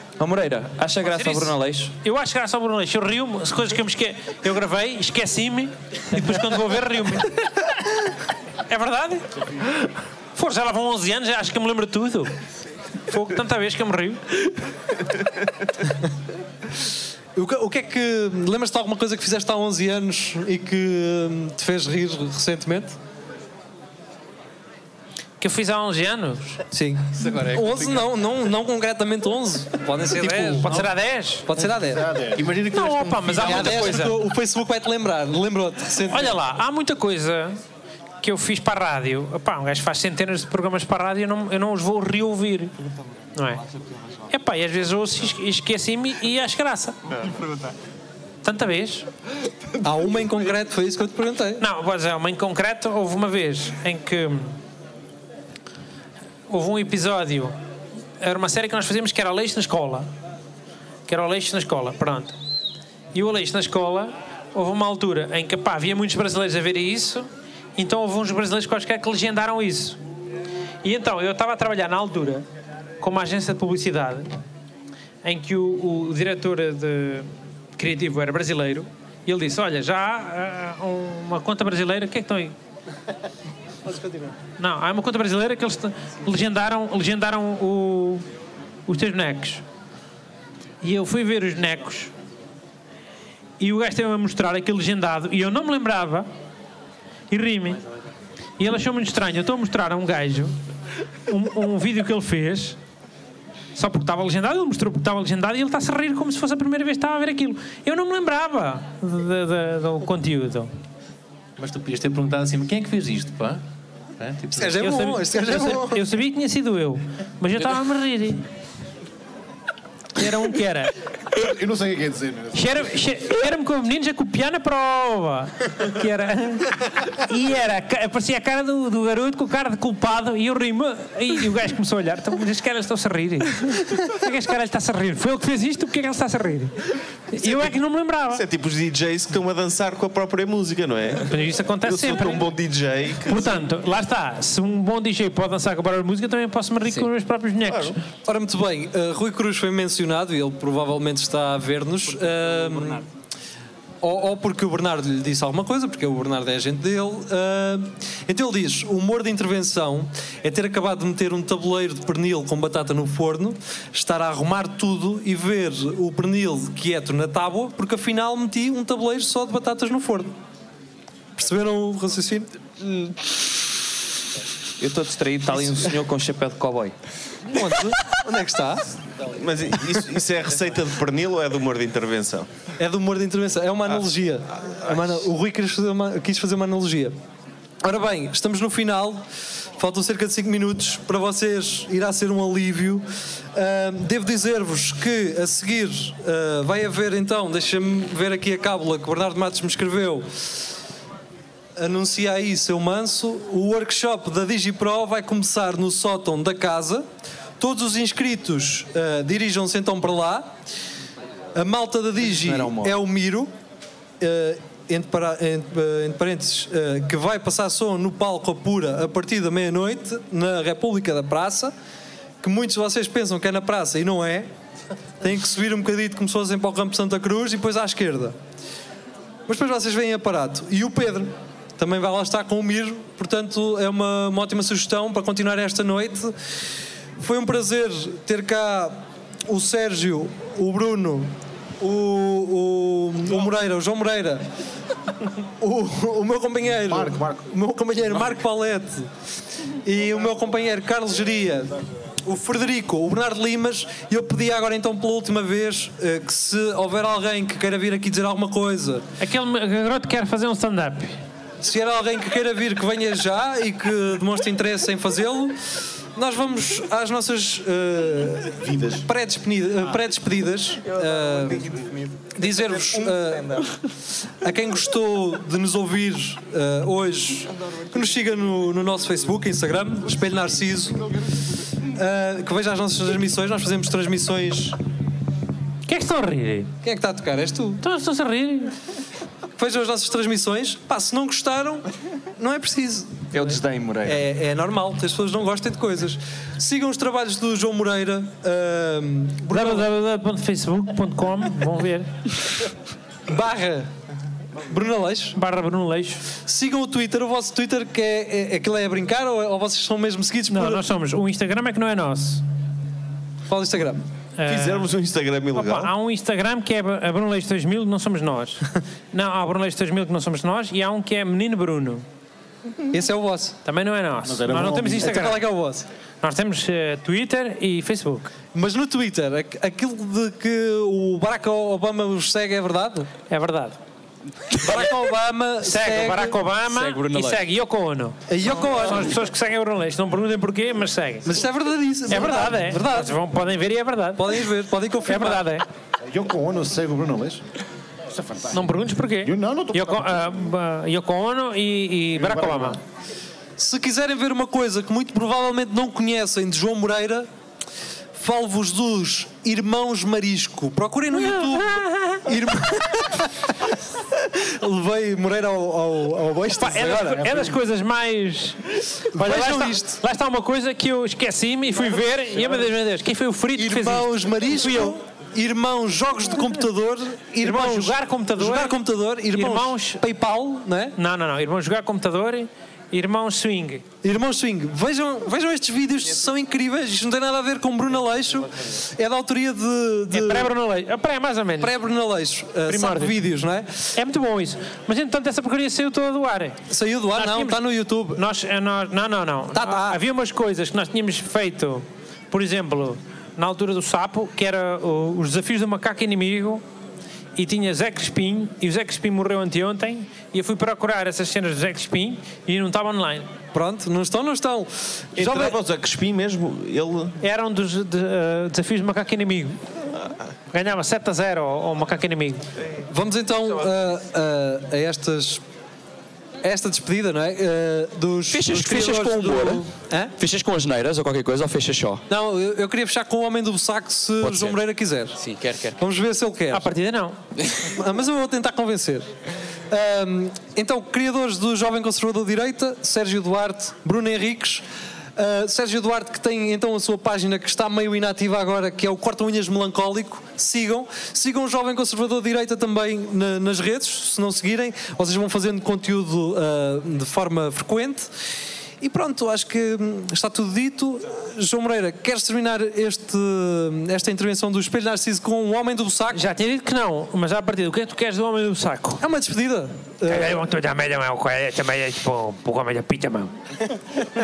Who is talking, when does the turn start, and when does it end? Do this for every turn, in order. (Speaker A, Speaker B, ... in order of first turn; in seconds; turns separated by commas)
Speaker A: 0.2-1.9, Speaker B: 1.0-7.7, Speaker B: 8.7-9.3, Speaker B: 10.3-12.3, Speaker B: 13.0-14.2, Speaker C: 17.4-22.9, Speaker B: 25.4-26.6, Speaker C: 26.7-30.8, Speaker D: 27.1-28.1, Speaker D: 30.1-30.9, Speaker B: 30.6-31.4, Speaker C: 31.4-32.0, Speaker E: 31.7-33.8, Speaker D: 32.3-34.1, Speaker B: 32.7-34.1, Speaker C: 33.4-36.4, Speaker B: 36.1-37.6, Speaker B: 38.2-42.7, Speaker B: 43.3-43.6, Speaker B: 44.3-47.1, Speaker B: 48.4-49.1, Speaker C: 49.8-51.6, Speaker B: 51.6-54.5, Speaker B: 56.5-57.5, Speaker B: 58.2-60.1, Speaker B: 61.1-62.3, Speaker B: 63.1-70.0, Speaker B: 70.8-72.4, Speaker B: 73.0-74.3, Speaker B: 75.2-82.5, Speaker C: 83.8-84.3, Speaker B: 84.6-88.2, Speaker B: 88.9-89.6, Speaker B: 90.8-92.1, Speaker B: 93.6-96.3, Speaker B: 97.3-97.8, Speaker B: 98.6-100.5, Speaker B: 101.3-102.8, Speaker B: 103.7-110.7, Speaker D: 111.6-113.6, Speaker D: 114.2-114.8, Speaker C: 114.5-116.0, Speaker B: 114.8-118.4, Speaker B: 120.2-120.9, Speaker E: 121.3-123.0, Speaker B: 122.5-136.8, Speaker B: 137.3-138.4, Speaker F: 137.4-137.7, Speaker F: 138.3-143.7, Speaker B: 141.2-142.5, Speaker B: 143.2-148.0, Speaker F: 147.7-148.0, Speaker C: 148.2-153.0, Speaker C: 154.0-170.3, Speaker C: 171.4-172.5, Speaker A: 174.8-176.9, Speaker C: 177.5-178.8, Speaker F: 179.3-182.5, Speaker C: 182.8-187.1, Speaker C: 187.8-189.2, Speaker C: 189.8-200.3, Speaker C: 201.8-207.1, Speaker C: 207.6-210.5, Speaker C: 211.5-213.5, Speaker A: 212.2-212.9, Speaker C: 214.2-221.7, Speaker C: 222.4-224.5, Speaker C: 225.2-228.3, Speaker C: 229.5-236.3, Speaker C: 237.2-244.4, Speaker C: 245.6-249.1, Speaker E: 246.8-247.4, Speaker C: 249.8-251.7, Speaker C: 252.2-259.0, Speaker B: 259.2-261.2, Speaker C: 261.6-265.6, Speaker C: 266.1-271.7, Speaker E: 268.6-269.1, Speaker C: 272.3-273.6, Speaker A: 272.4-273.0, Speaker C: 274.4-281.1, Speaker C: 281.9-284.8, Speaker B: 285.9-286.7, Speaker C: 286.8-287.8, Speaker B: 287.8-288.7, Speaker C: 289.6-291.9, Speaker C: 292.4-299.9, Speaker A: 293.3-294.2, Speaker B: 299.5-302.3, Speaker C: 303.3-303.9, Speaker C: 304.7-305.4, Speaker B: 305.3-306.2, Speaker C: 306.4-310.8, Speaker B: 310.5-312.4, Speaker C: 313.5-314.0, Speaker B: 314.4-314.9, Speaker F: 314.4-315.9, Speaker B: 315.5-322.0, Speaker C: 322.9-323.6, Speaker B: 323.6-325.4, Speaker E: 324.2-325.1, Speaker C: 324.9-325.9, Speaker B: 326.2-328.3, Speaker C: 328.5-333.1, Speaker B: 333.3-333.8, Speaker C: 334.5-336.4, Speaker B: 335.6-341.4, Speaker A: 336.7-337.4, Speaker C: 338.3-339.1, Speaker C: 341.2-343.2, Speaker B: 342.1-344.4, Speaker C: 344.2-345.4, Speaker B: 345.0-345.6, Speaker E: 346.1-347.4, Speaker E: 348.1-350.5, Speaker B: 348.5-352.8, Speaker E: 352.1-352.8, Speaker C: 353.6-357.3, Speaker C: 358.2-363.5, Speaker B: 361.1-362.2, Speaker C: 364.2-367.4, Speaker B: 366.6-375.0, Speaker C: 369.1-370.0, Speaker C: 373.6-380.9, Speaker B: 377.4-378.8, Speaker B: 379.3-380.0, Speaker B: 380.9-383.8, Speaker C: 384.0-390.5, Speaker B: 390.1-391.8, Speaker C: 391.6-393.9, Speaker B: 392.7-393.2, Speaker B: 393.9-396.6, Speaker C: 396.7-398.2, Speaker B: 397.1-397.6, Speaker B: 398.1-406.6, Speaker C: 399.5-400.0, Speaker B: 407.4-413.3, Speaker C: 413.5-415.5, Speaker F: 415.1-417.2, Speaker B: 417.2-419.6, Speaker B: 420.5-422.5, Speaker C: 422.9-425.4, Speaker C: 426.4-430.1, Speaker G: 428.3-429.7, Speaker G: 430.2-432.0, Speaker C: 432.1-435.2, Speaker G: 434.2-434.6, Speaker A: 435.2-435.7, Speaker G: 435.3-435.5, Speaker C: 435.8-436.7, Speaker B: 436.5-437.2, Speaker C: 437.6-439.1, Speaker C: 439.7-444.6, Speaker C: 445.1-458.1, Speaker C: 458.8-466.2, Speaker B: 466.1-469.0, Speaker C: 469.0-470.4, Speaker B: 470.0-473.3